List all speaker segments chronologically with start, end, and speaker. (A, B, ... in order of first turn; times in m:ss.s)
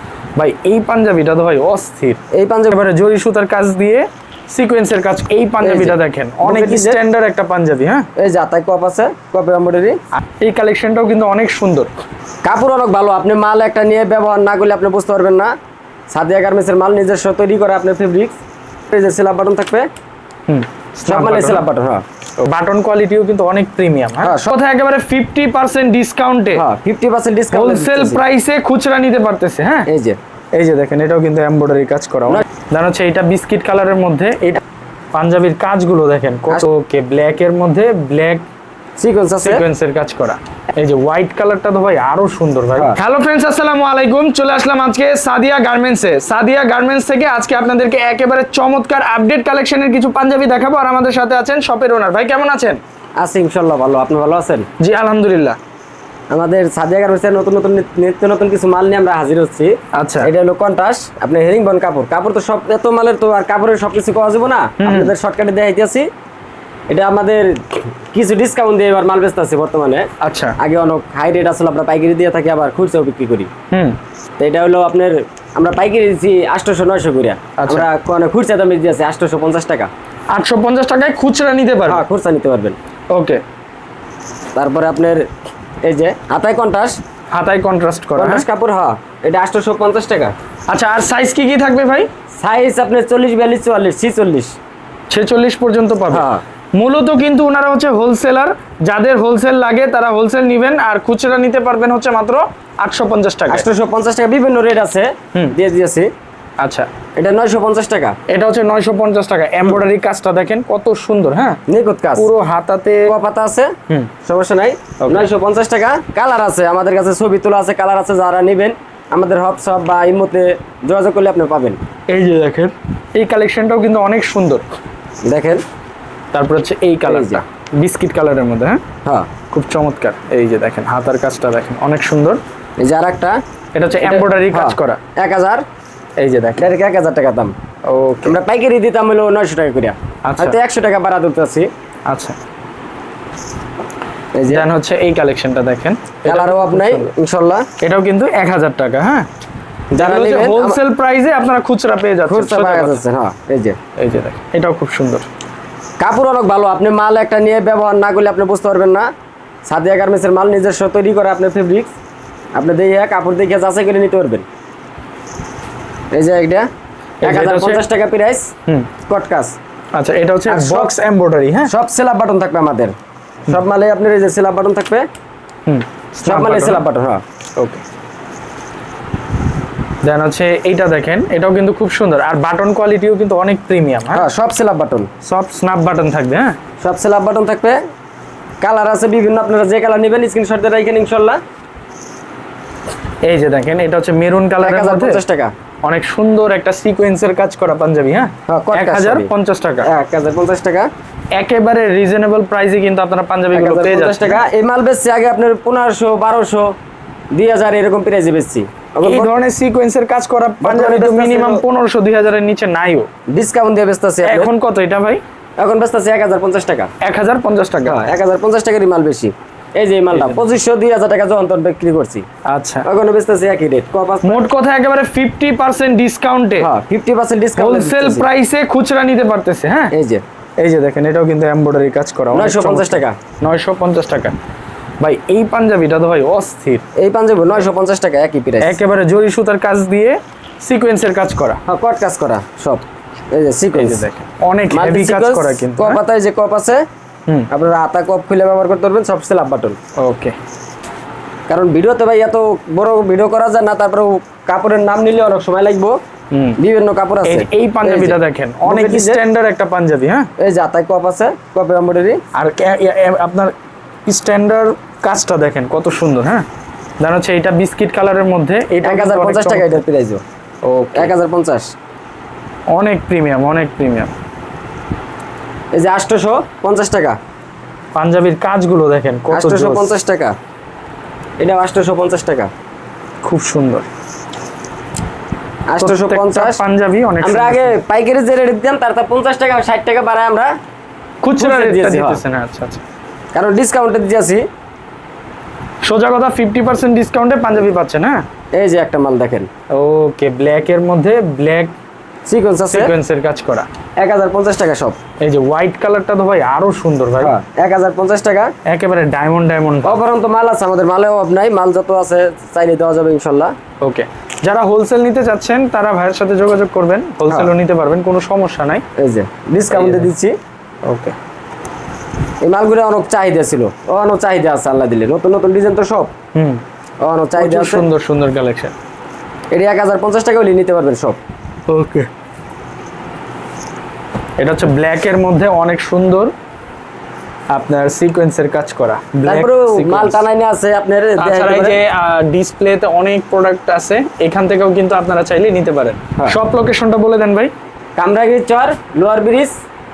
0:00.4-0:02.2 A
0:02.3-0:02.8 B
0:02.7-0:08.1 A
0:05.6-0:07.0 B
0:08.2-0:10.0 B
0:10.4-0:11.9 A
0:12.4-0:15.5 B
0:16.1-0:18.4 B
0:18.9-0:19.9 B
0:20.5-0:21.6 A
0:21.1-0:22.0 B
0:22.4-0:26.6 A
0:24.2-0:24.5 B
0:26.5-0:28.2 B
0:27.5-0:29.9 A
0:29.9-0:30.2 B
0:30.5-0:34.6 A
0:35.1-0:38.4 A
0:39.0-0:39.6 B
0:39.4-0:52.8 A
0:53.2-0:54.7 B
0:54.8-0:55.6 A
0:56.3-1:06.1 B
0:59.9-1:00.3 A
1:04.8-1:05.1 A
1:06.9-1:13.5 B
1:10.2-1:10.5 A
1:13.7-1:14.0 A
1:14.4-1:19.9 B
1:17.6-1:17.8 A
1:20.3-1:22.0 A
1:21.9-1:22.8 B
1:23.1-1:23.4 A
1:24.5-1:25.2 B
1:25.8-1:27.0 B
1:27.3-1:28.4 A
1:28.2-1:30.3 B
1:30.7-1:32.1 A
1:32.4-1:34.5 B
1:35.1-1:43.6 A
1:36.1-1:36.4 B
1:43.5-1:46.1 B
1:46.6-1:46.9 A
1:47.2-1:48.2 B
1:48.3-1:51.6 A
1:51.7-1:52.3 B
1:52.2-1:53.1 A
1:53.0-2:01.8 B
1:55.0-1:55.3 A
2:02.1-2:04.6 A
2:05.2-2:05.6 B
2:06.3-2:08.8 A
2:07.0-2:07.4 B
2:09.0-2:09.3 B
2:09.5-2:12.4 A
2:12.8-2:13.4 B
2:13.7-2:15.0 A
2:14.0-2:15.6 B
2:16.2-2:16.6 A
2:16.6-2:17.5 B
2:17.8-2:18.3 A
2:18.2-2:21.7 B
2:20.2-2:20.6 A
2:22.1-2:22.4 A
2:24.3-2:24.7 B
2:24.5-2:27.1 A
2:26.2-2:27.7 B
2:27.8-2:29.3 A
2:29.9-2:30.8 B
2:30.0-2:33.0 A
2:32.2-2:33.8 B
2:34.0-2:35.2 A
2:36.0-2:39.1 B
2:39.6-2:41.9 B
2:42.5-2:44.4 B
2:46.1-2:46.7 B
2:47.2-2:47.8 A
2:47.2-2:48.5 B
2:49.0-2:49.6 B
2:49.9-2:51.7 A
2:50.5-2:50.9 B
2:51.6-2:52.9 B
2:53.5-2:55.0 B
2:55.6-2:56.8 A
2:56.2-2:57.2 B
2:57.6-2:57.8 A
3:00.0-3:04.3 A
3:04.1-3:05.1 B
3:05.2-3:06.6 A
3:06.8-3:07.8 B
3:08.6-3:11.4 B
3:13.2-3:15.2 A
3:14.6-3:15.5 B
3:15.8-3:19.9 A
3:18.5-3:19.3 B
3:19.8-3:20.9 B
3:21.3-3:24.4 A
3:23.5-3:26.7 B
3:27.3-3:29.3 B
3:29.0-3:33.1 A
3:30.6-3:31.6 B
3:33.3-3:34.5 B
3:34.2-3:35.2 A
3:35.6-3:36.9 B
3:37.0-3:38.1 A
3:37.8-3:42.2 B
3:40.1-3:40.4 A
3:42.5-3:42.8 A
3:42.8-3:44.4 B
3:44.2-3:46.7 A
3:46.6-3:48.3 B
3:47.6-3:49.9 A
3:49.9-3:50.2 B
3:50.6-3:54.4 A
3:52.3-3:53.2 B
3:55.0-3:56.8 A
3:57.0-3:58.8 B
3:58.6-4:01.6 A
4:01.6-4:04.0 B
4:03.7-4:06.0 A
4:04.7-4:06.8 B
4:07.5-4:09.8 B
4:10.0-4:10.4 A
4:11.5-4:16.0 B
4:16.6-4:19.2 B
4:17.2-4:20.3 A
4:20.4-4:22.2 B
4:22.3-4:23.5 A
4:24.0-4:26.4 A
4:27.0-4:29.8 A
4:28.8-4:30.2 B
4:30.6-4:31.1 A
4:31.0-4:31.7 B
4:32.7-4:34.1 A
4:35.7-4:37.2 B
4:37.9-4:39.9 A
4:39.3-4:40.3 B
4:41.4-4:42.5 B
4:43.2-4:43.9 A
4:45.7-4:46.6 B
4:45.8-4:47.8 A
4:47.2-4:50.5 B
4:51.2-4:52.8 A
4:51.4-4:52.2 B
4:53.3-4:54.4 B
4:55.8-4:58.2 A
4:58.5-4:59.5 B
4:59.7-5:01.7 A
5:02.2-5:02.9 B
5:02.6-5:03.7 A
5:04.0-5:05.0 B
5:05.2-5:07.3 A
5:07.2-5:08.5 B
5:08.7-5:10.0 A
5:09.8-5:13.5 B
5:13.8-5:18.8 A
5:19.0-5:20.4 B
5:19.7-5:20.1 A
5:20.8-5:21.2 A
5:22.4-5:26.1 B
5:26.3-5:26.6 A
5:27.0-5:27.8 B
5:27.4-5:28.7 A
5:29.5-5:31.2 B
5:31.7-5:32.1 A
5:34.4-5:36.3 A
5:37.5-5:40.2 A
5:39.2-5:41.8 B
5:41.2-5:47.5 A
5:48.0-5:49.6 B